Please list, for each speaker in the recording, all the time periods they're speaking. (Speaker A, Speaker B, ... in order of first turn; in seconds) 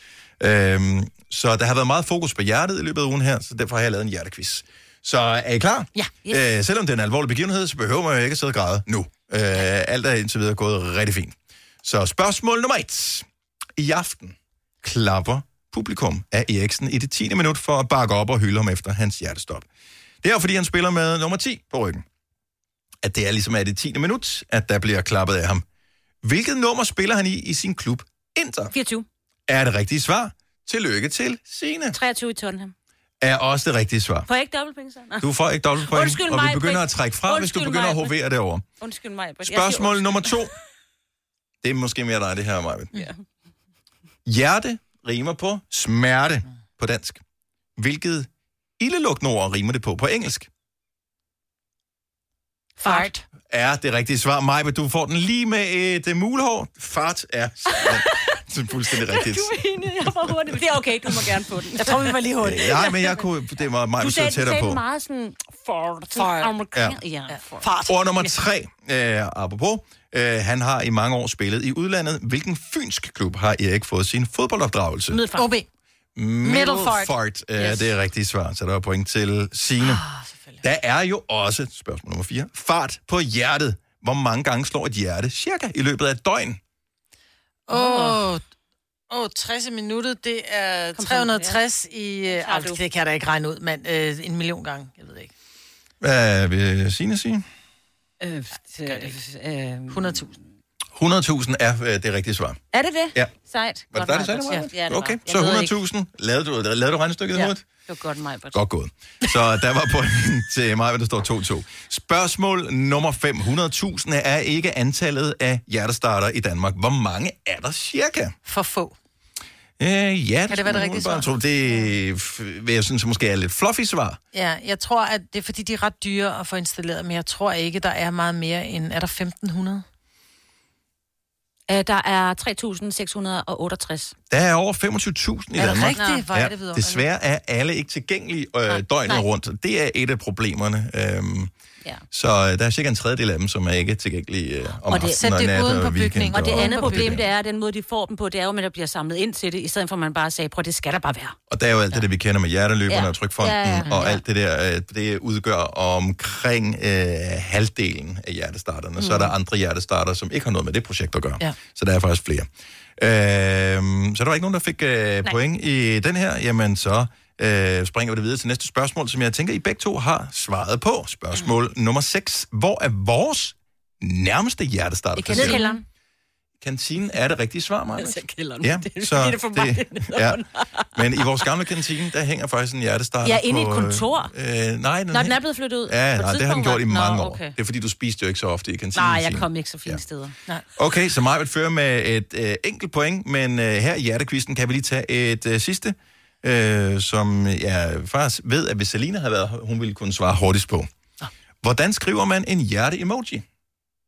Speaker A: 0.4-13.2, 13.8-19.6, 20.2-22.0, 23.0-25.6, 26.2-28.7, 29.5-32.0, 33.2-34.3, 35.2-38.6, 39.4-40.5, 41.6-42.9, 44.2-47.2, 47.8-48.3, 48.8-50.5, 53.5-59.5, 62.4-64.8, 67.9-75.2, 76.2-80.0, 80.6-86.6, 96.0-97.4, 101.0-102.6, 103.9-107.6, 108.5-118.3, 119.8-124.2, 134.3-141.5, 142.1-147.3, 151.5-175.6, 176.6-180.4, 180.9-185.3, 185.9-190.0, 190.8-200.9, 201.6-203.4
Speaker B: 28.7-29.1, 31.9-32.7, 34.3-35.3, 35.8-38.1, 38.8-40.5, 52.8-53.1, 60.5-62.1, 64.0-67.8, 75.1-75.5, 87.7-88.2, 91.0-91.6, 92.2-92.8, 98.2-100.2, 102.7-105.7, 107.3-108.6, 131.7-134.1, 135.9-136.2, 146.3-151.3, 152.9-154.2, 159.0-159.3, 175.3-175.8, 178.0-181.3, 183.2-184.3, 185.1-187.6, 188.9-190.3
Speaker C: 52.8-53.2, 59.1-60.6, 61.8-62.9, 66.1-66.5, 67.3-68.3, 75.3-75.7, 76.4-77.8, 79.8-80.6, 87.7-88.4, 89.1-95.3, 98.8-99.2, 99.9-100.3, 118.4-119.0, 120.5-121.3, 124.3-129.8, 135.6-137.0, 144.9-147.2, 175.2-175.8